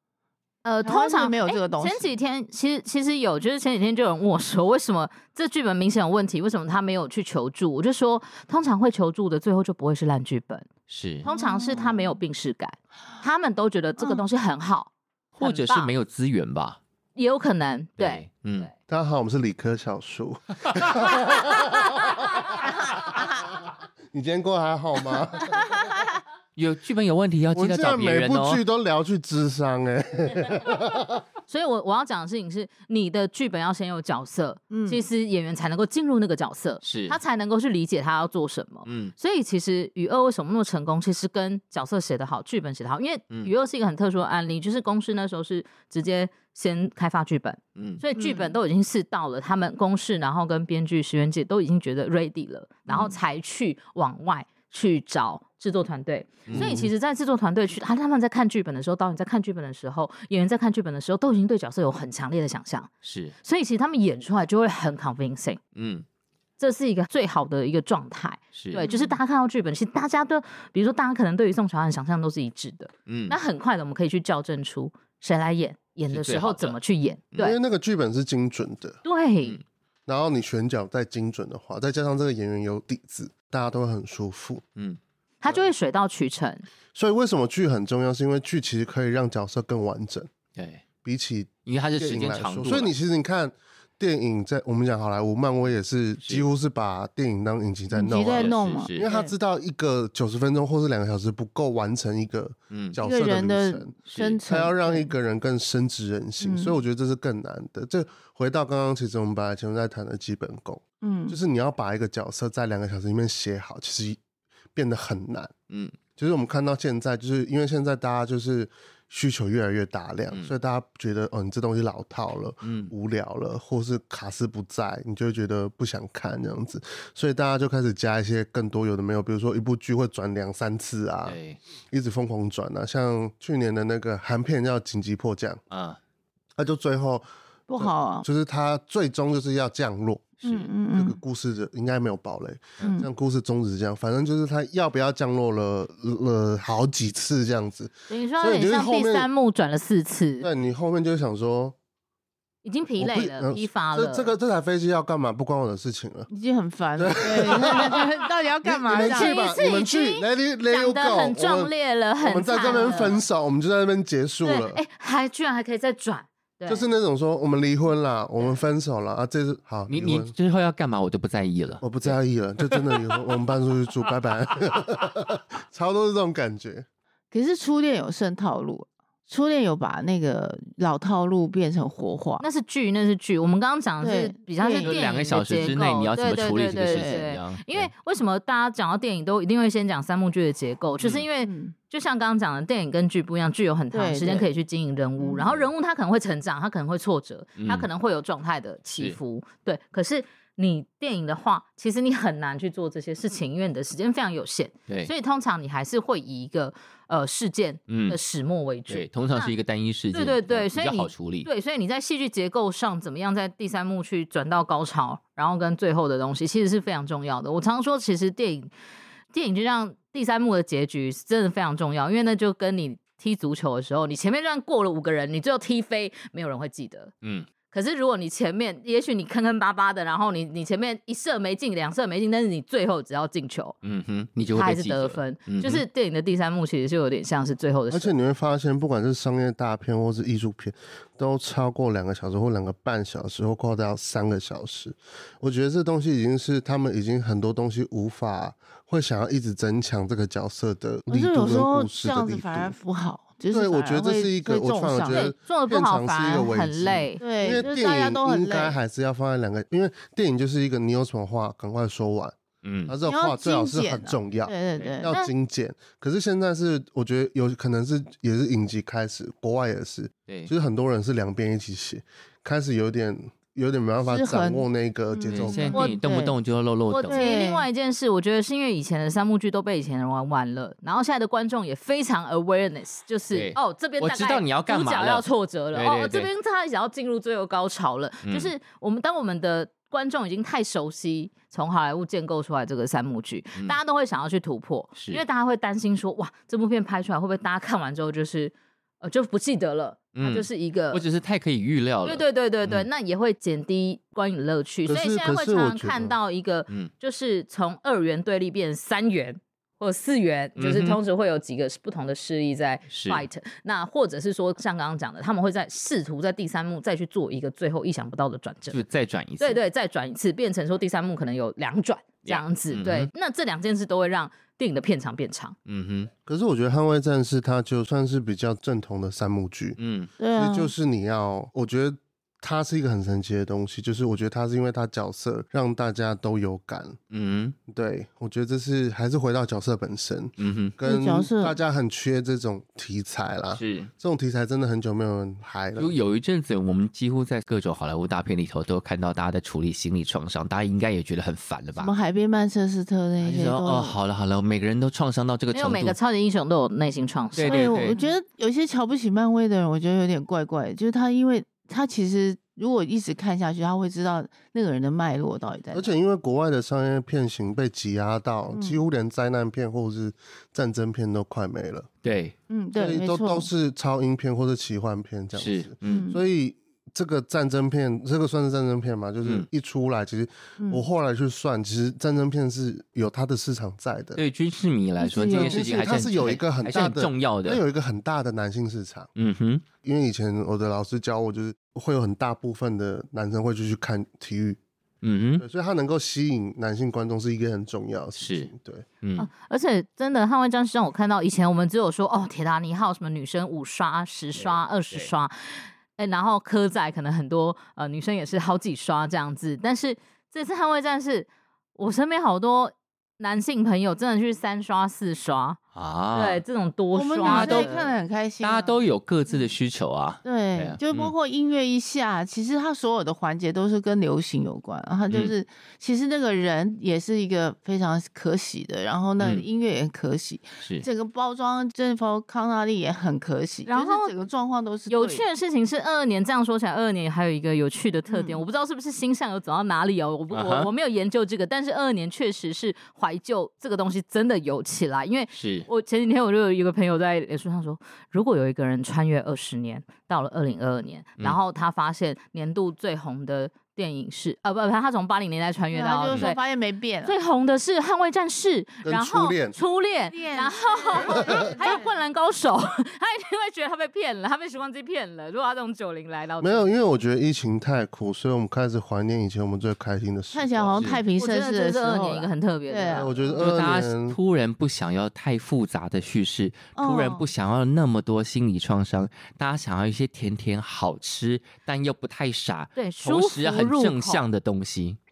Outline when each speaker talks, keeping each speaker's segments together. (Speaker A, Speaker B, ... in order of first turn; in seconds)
Speaker A: 0.6-10.7, 11.2-15.9, 17.1-18.7, 31.5-62.9, 63.4-65.6, 66.6-77.5, 79.0-79.6, 85.4-86.6, 148.1-150.5, 152.6-154.3, 159.1-163.2, 164.4-166.9, 182.4-209.5, 210.1-218.7, 219.3-227.1, 227.7-233.8, 234.5-238.1, 255.1-257.2, 276.9-301.0, 302.0-318.8, 319.4-325.5, 355.5-358.1, 399.2-415.6, 416.1-417.9, 433.6-434.1, 434.9-456.4, 457.0-466.7, 471.1-473.1, 482.8-484.2
Speaker B: 0.8-2.1, 11.2-12.1, 34.7-35.0, 48.2-48.5, 68.8-69.2, 97.9-99.3, 103.0-105.1, 106.4-106.8, 111.0-111.4, 137.7-138.2, 140.4-141.2, 142.8-143.1, 156.3-159.3, 177.3-182.4, 184.0-185.0, 186.9-187.2, 191.4-191.7, 193.9-194.5, 195.2-195.5, 251.1-255.3, 257.2-258.8, 263.1-265.1, 274.0-276.3, 277.1-277.7, 330.2-330.7, 340.8-341.5, 351.8-353.9, 357.4-365.9, 368.5-368.8, 372.5-373.5, 375.9-376.2, 385.0-385.6, 416.9-418.8, 420.2-435.2, 438.1-438.4, 455.7-457.1, 460.1-461.9, 470.3-473.4, 476.8-477.2
Speaker C: 10.9-11.2, 15.4-16.8, 18.0-18.7, 26.6-28.6, 36.8-37.2, 38.9-39.1, 47.8-48.0, 52.9-53.1, 56.5-56.7, 63.0-63.3, 65.7-66.0, 68.5-68.8, 73.1-73.4, 76.1-76.8, 90.5-90.8, 91.7-92.9, 98.3-99.0, 102.7-103.0, 104.1-104.4, 115.7-116.0, 122.6-122.9, 131.2-131.6, 135.7-136.0, 140.4-140.7, 169.9-172.1, 184.8-187.9, 197.6-197.9, 198.9-199.2, 207.9-208.2, 208.9-211.5, 233.8-235.8, 262.6-262.9, 275.3-277.3, 283.3-286.3, 288.2-288.5, 294.9-295.2, 300.1-302.9, 310.6-311.0, 312.9-313.2, 318.7-319.6, 322.2-323.1, 325.6-326.1, 329.8-330.1, 337.1-337.5, 340.4-340.8, 343.5-343.9, 345.8-351.9, 353.2-356.0, 357.4-358.0, 372.0-372.3, 375.4-376.1, 384.1-387.6, 389.1-389.6, 395.0-395.4, 398.2-398.5, 399.0-399.3, 404.3-405.1, 415.7-416.4, 417.2-421.1, 429.2-429.5, 440.3-440.7, 445.3-445.7, 473.4-485.0
Speaker D: 18.9-23.2, 24.1-25.8, 27.5-31.2, 56.5-56.9, 77.4-79.0, 80.1-84.6, 86.9-90.3, 91.0-114.2, 114.7-115.5, 116.2-131.4, 131.9-135.6, 136.6-137.2, 137.8-140.4, 140.9-149.3, 150.4-151.8, 153.0-156.3, 157.0-158.0, 158.6-164.8, 166.7-170.3, 171.8-176.8, 237.9-252.8, 253.5-262.4, 262.9-275.8, 304.9-306.2, 326.2-329.8, 330.3-337.0, 337.7-345.9, 365.7-371.9, 372.7-384.2, 385.3-389.1, 389.8-394.6, 395.4-398.8, 458.8-459.6, 466.4-470.9, 472.9-474.2